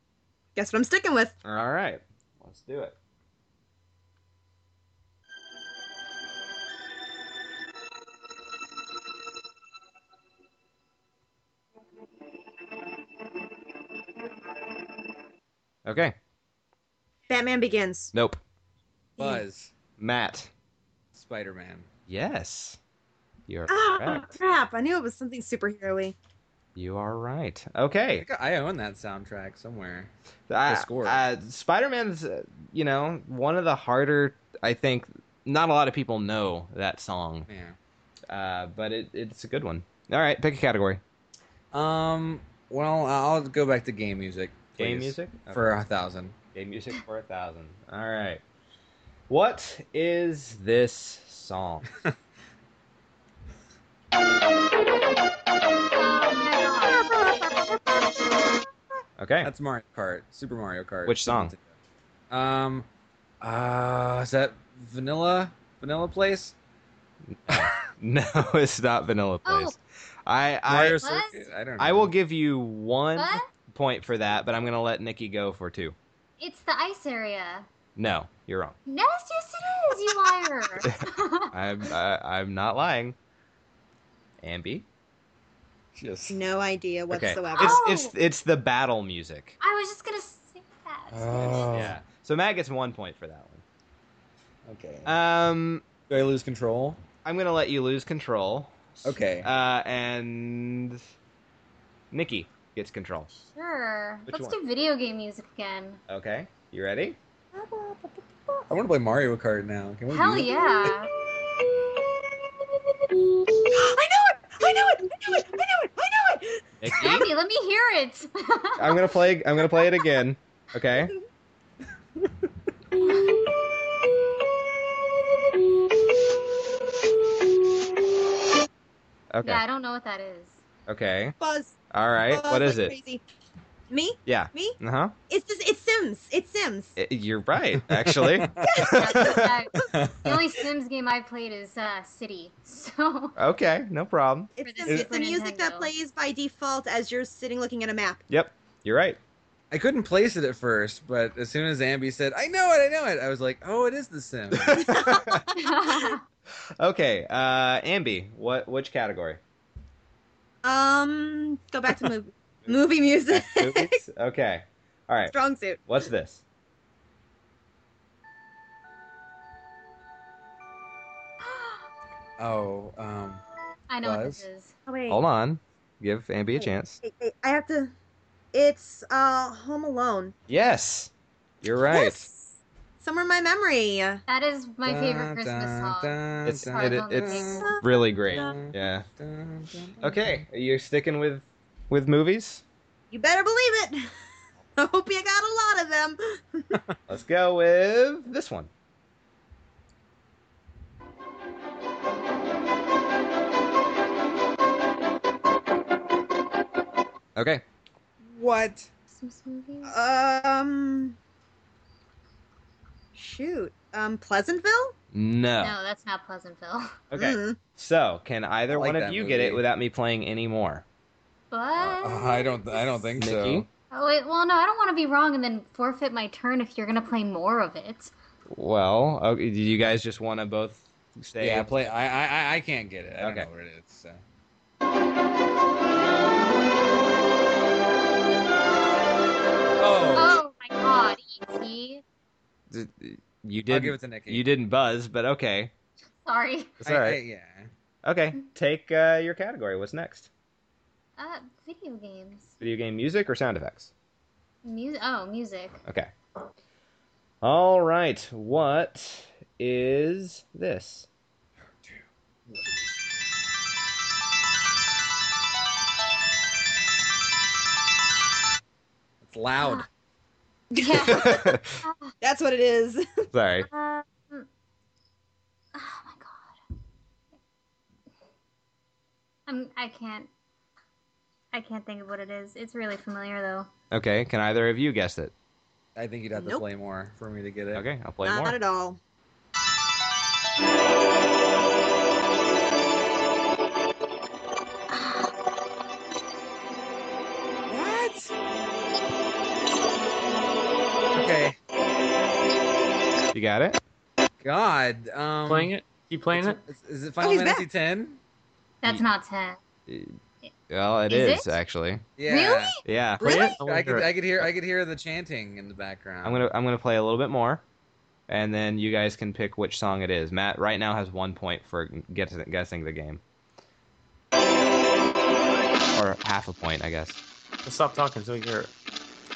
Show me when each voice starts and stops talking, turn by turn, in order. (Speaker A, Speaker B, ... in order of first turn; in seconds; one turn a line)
Speaker A: 0.6-1.4
Speaker B: 1.4-3.0
Speaker B: 15.9-16.1
Speaker A: 17.3-18.1
Speaker B: 18.1-18.4
Speaker A: 19.2-19.4
Speaker C: 19.2-19.7
Speaker B: 20.0-20.5
Speaker C: 21.1-21.9
Speaker B: 22.1-22.8
Speaker B: 23.5-24.4
Speaker A: 23.7-26.1
Speaker B: 26.8-28.3
Speaker C: 28.2-30.1
Speaker B: 30.5-37.5
Speaker C: 30.7-31.2
Speaker C: 37.5-37.8
Speaker B: 38.3-41.0
Speaker C: 41.7-46.4
Speaker B: 44.8-45.7
Speaker B: 46.5-48.4
Speaker B: 49.3-51.9
Speaker D: 55.9-57.2
Speaker A: 57.2-57.6
Speaker B: 59.2-59.5
Speaker C: 59.4-61.6
Speaker B: 61.1-61.5
Speaker C: 62.3-62.9
Speaker C: 63.4-66.5
Speaker B: 67.3-71.0
Speaker D: 69.5-69.8
Speaker C: 70.7-72.1
Speaker D: 71.0-71.5
Speaker B: 71.8-76.0
Speaker D: 73.2-73.5
Speaker D: 76.4-77.7
Speaker B: 78.0-78.8
Speaker D: 78.9-81.5
Speaker B: 80.8-83.2
Speaker B: 84.4-84.9
Speaker C: 86.0-86.4
Speaker A: 86.3-87.8
Speaker B: 87.1-89.6
Speaker D: 87.6-88.1
Speaker D: 89.6-91.9
Speaker C: 91.1-92.0
Speaker B: 91.7-93.6
Speaker C: 94.7-95.1
Speaker B: 95.0-95.8
Speaker C: 96.1-97.0
Speaker B: 97.2-101.0
Speaker C: 99.0-99.5
Speaker B: 102.1-103.3
Speaker D: 103.3-106.0
Speaker B: 104.3-104.6
Speaker B: 106.1-107.2
Speaker A: 107.5-108.7
Speaker C: 108.7-110.9
Speaker D: 110.1-111.1
Speaker A: 113.7-116.7
Speaker B: 116.8-117.3
Speaker D: 117.0-119.1
Speaker B: 118.8-121.1
Speaker B: 129.3-129.6
Speaker D: 129.4-130.6
Speaker B: 130.9-131.3
Speaker A: 131.4-131.8
Speaker B: 131.9-132.9
Speaker A: 132.3-133.2
Speaker A: 133.9-134.8
Speaker B: 134.3-135.1
Speaker A: 135.3-137.0
Speaker B: 137.0-139.6
Speaker C: 137.8-138.9
Speaker A: 138.7-139.4
Speaker D: 138.8-143.4
Speaker C: 139.9-140.6
Speaker B: 143.4-144.5
Speaker A: 144.6-148.2
Speaker D: 144.6-145.9
Speaker B: 148.3-149.2
Speaker C: 149.7-154.9
Speaker B: 154.5-155.5
Speaker A: 154.8-155.4
Speaker D: 155.5-156.2
Speaker B: 156.8-159.4
Speaker A: 160.6-164.0
Speaker B: 163.3-165.3
Speaker A: 165.3-165.8
Speaker B: 165.9-166.4
Speaker D: 171.5-171.8
Speaker C: 172.4-173.4
Speaker D: 173.9-174.7
Speaker C: 174.0-174.4
Speaker A: 174.9-175.2
Speaker B: 175.1-177.0
Speaker A: 176.6-177.9
Speaker A: 178.5-180.3
Speaker B: 180.5-181.1
Speaker B: 181.6-182.3
Speaker A: 181.9-182.3
Speaker A: 183.0-184.2
Speaker D: 184.3-187.8
Speaker C: 184.8-187.7
Speaker B: 186.4-189.1
Speaker A: 187.5-188.6
Speaker C: 188.3-190.4
Speaker B: 190.0-192.6
Speaker A: 193.1-194.1
Speaker A: 194.8-196.8
Speaker B: 197.1-198.7
Speaker B: 207.4-207.6
Speaker C: 208.3-208.9
Speaker D: 209.1-209.9
Speaker A: 209.8-211.2
Speaker A: 213.2-214.9
Speaker B: 215.1-215.8
Speaker D: 215.6-217.0
Speaker B: 217.1-220.8
Speaker A: 217.2-217.6
Speaker C: 218.7-219.6
Speaker D: 221.5-223.1
Speaker C: 222.0-223.7
Speaker B: 223.2-223.7
Speaker D: 223.9-228.1
Speaker B: 228.5-231.7
Speaker C: 231.4-234.2
Speaker B: 233.2-233.5
Speaker C: 239.8-240.4
Speaker D: 240.1-242.0
Speaker B: 242.7-245.7
Speaker C: 243.7-244.4
Speaker D: 246.2-246.8
Speaker C: 246.8-247.7
Speaker B: 246.8-247.2
Speaker B: 248.0-250.3
Speaker D: 251.2-252.6
Speaker B: 252.6-253.9
Speaker D: 254.6-255.8
Speaker B: 257.4-261.1
Speaker C: 269.2-269.9
Speaker D: 270.8-272.1
Speaker A: 270.8-271.3
Speaker B: 271.0-271.8
Speaker A: 272.2-273.3
Speaker B: 273.3-273.7
Speaker D: 273.7-274.5
Speaker D: 275.7-276.6
Speaker D: 279.5-280.3
Speaker D: 281.5-283.7
Speaker B: 283.9-285.3
Speaker C: 286.0-287.9
Speaker A: 286.4-286.6
Speaker B: 287.7-288.6
Speaker A: 288.2-289.0
Speaker C: 297.7-298.3
Speaker C: 301.1-301.6
Speaker B: 303.3-303.8
Speaker C: 304.4-305.7
Speaker E: 305.5-306.6
Speaker C: 306.3-308.2
Speaker A: 307.2-307.6
Speaker D: 308.8-309.6
Speaker B: 309.9-310.2
Speaker B: 310.7-312.1
Speaker D: 311.1-311.6
Speaker C: 312.2-312.8
Speaker D: 312.3-312.8
Speaker B: 312.9-313.4
Speaker E: 313.2-314.1
Speaker A: 313.2-313.6
Speaker C: 313.3-316.5
Speaker B: 316.2-317.6
Speaker B: 318.3-323.2
Speaker B: 325.9-327.2
Speaker E: 327.6-328.7